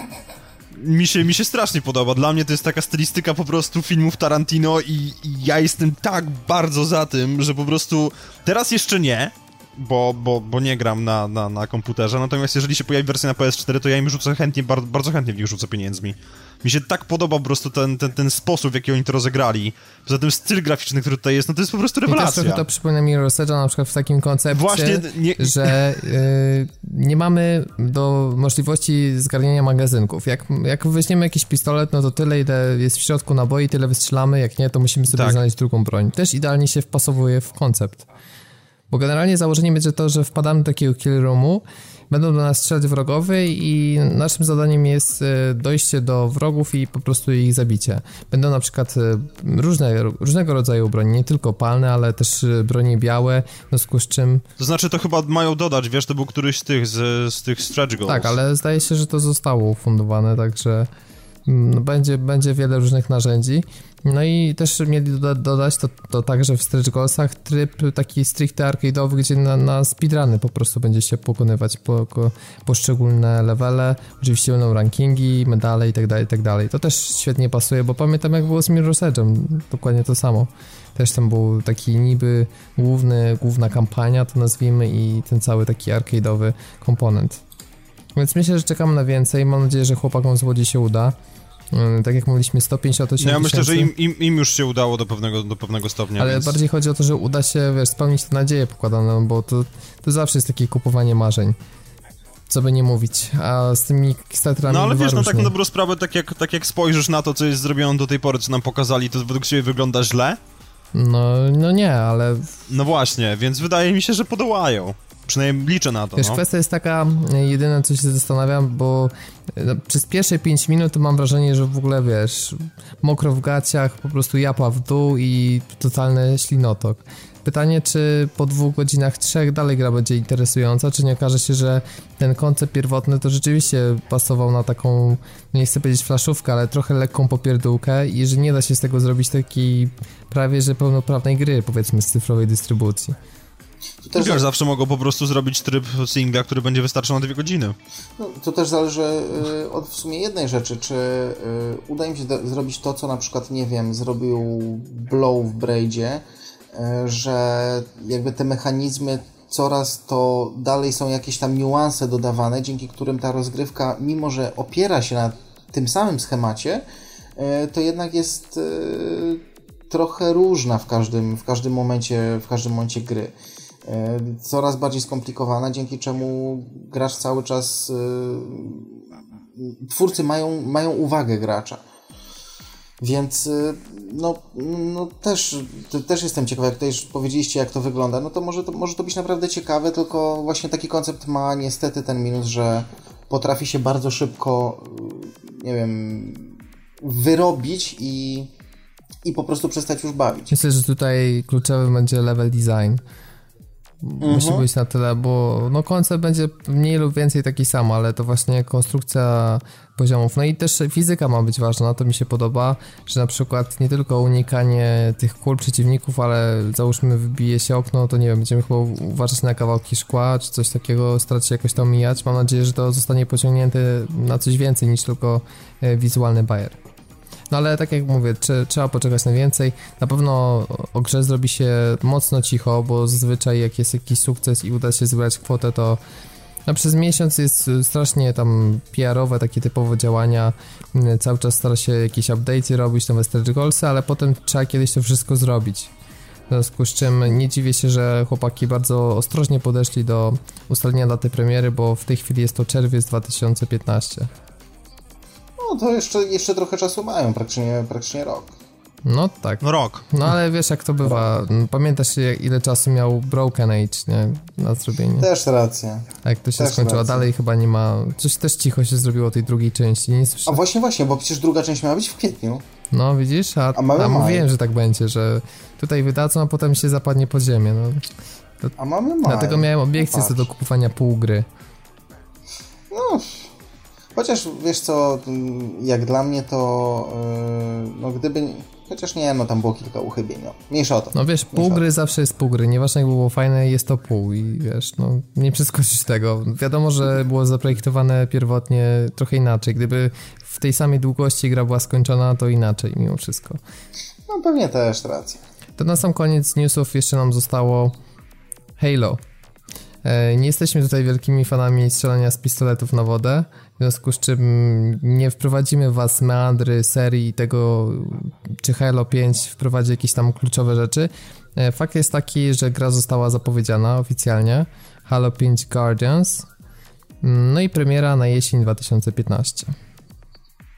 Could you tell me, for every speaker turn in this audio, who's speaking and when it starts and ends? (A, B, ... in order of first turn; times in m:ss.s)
0:00.7-0:22.6 A
0:22.1-0:38.1 B
0:24.5-0:25.8 A
0:35.1-0:35.4 A
0:38.9-0:54.4 B
0:54.6-0:58.3 A
0:58.1-1:00.9 B
1:01.4-1:27.4 B
1:28.2-1:31.2 B
1:31.7-1:33.9 B
1:33.2-1:36.6 A
1:36.2-1:41.6 B
1:42.5-1:45.5 B
1:44.7-1:50.4 A
1:50.9-1:52.5 B
1:52.7-1:56.4 A
1:56.2-2:23.2 B
2:24.0-2:24.5 C
2:24.2-2:27.7 A
2:28.2-2:46.8 C
2:47.4-3:01.8 C
3:03.0-3:18.5 C
3:19.2-3:20.5 C
3:20.5-3:23.0 B
3:24.0-3:46.8 B
3:24.2-3:24.6 C
3:47.5-3:56.0 B
3:56.7-4:05.9 B
4:06.5-4:14.3 B
4:15.6-4:18.5 C
4:19.0-4:25.3 B
4:19.6-4:20.0 A
4:25.2-4:27.3 C
4:26.2-4:30.6 B
4:30.4-4:32.6 C
4:32.9-4:38.0 B
4:33.7-4:34.5 C
4:38.8-4:40.5 C
4:39.2-4:41.5 B
4:42.9-4:43.5 C
4:44.1-4:51.8 C
4:51.1-5:03.6 B
5:04.3-5:05.4 C
5:05.8-5:07.9 B
5:08.8-5:09.2 B
5:10.0-5:26.5 B
5:27.2-5:29.7 B